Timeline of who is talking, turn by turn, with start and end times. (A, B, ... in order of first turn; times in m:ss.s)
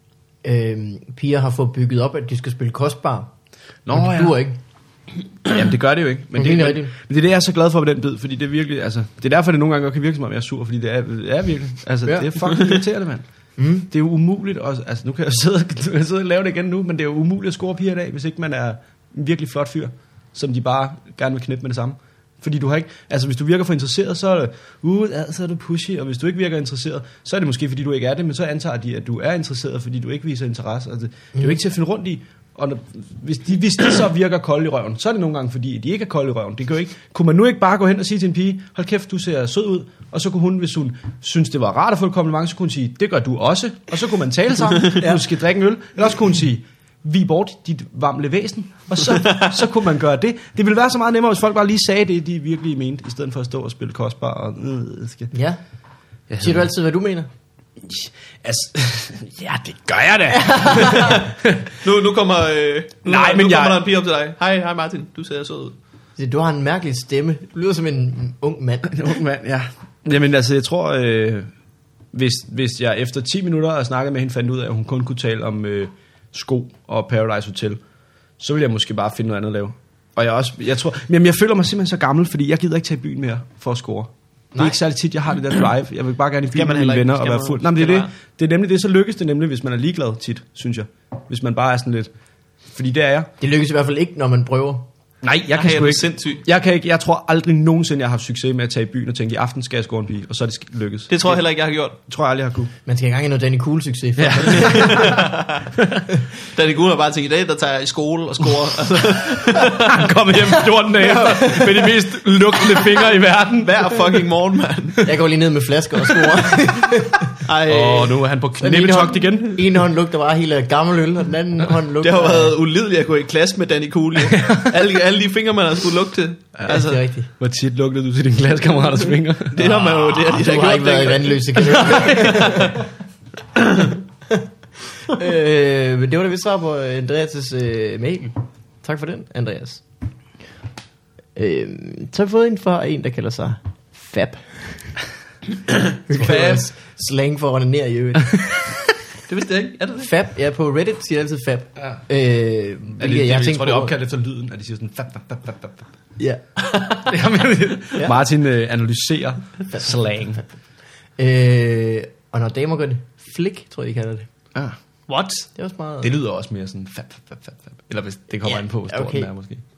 0:00.4-0:03.3 A
0:03.9-0:04.4 B
0:03.9-0:04.6 A
0:05.4-0:13.2 B
0:06.4-0:06.9 A
0:12.1-0:12.4 A
0:13.6-0:13.9 A
0:13.9-0:55.3 B
0:55.3-0:55.6 A
0:56.3-0:56.7 B
0:56.4-0:57.3 A
0:57.8-1:01.8 B
1:00.3-1:01.2 A
1:01.8-1:05.7 C
1:03.0-1:03.8 B
1:06.2-1:09.1 A
1:08.9-1:11.5 B
1:12.1-1:17.8 B
1:18.4-1:32.1 B
1:26.5-1:28.1 C
1:32.7-1:33.3 B
1:33.4-1:34.9 A
1:35.2-1:41.4 B
1:35.6-1:36.4 C
1:41.1-1:42.0 C
1:42.1-1:42.7 B
1:42.9-1:45.3 A
1:44.2-1:46.0 B
1:44.6-1:45.7 C
1:46.4-1:50.0 C
1:49.4-1:54.2 B
1:51.2-1:51.8 A
1:53.6-1:55.1 C
1:55.0-1:57.4 A
1:57.4-1:58.2 C
1:57.6-1:59.7 B
1:58.6-2:02.6 A
2:02.0-2:07.0 C
2:04.2-2:04.7 B
2:06.7-2:07.3 A
2:07.4-2:10.4 B
2:09.5-2:12.8 C
2:10.3-2:12.8 A
2:13.6-2:13.9 C
2:15.1-2:18.3 A
2:18.8-2:19.8 A
2:21.4-2:25.0 A
2:25.9-2:28.6 A
2:26.1-2:26.6 C
2:29.3-2:30.1 C
2:30.0-2:34.0 A
2:33.0-2:35.9 B
2:36.2-2:37.1 A
2:37.0-2:40.4 B
2:41.2-2:44.3 A
2:45.1-2:45.5 C
2:45.6-2:46.1 A
2:46.0-2:49.6 B
2:48.9-2:49.3 A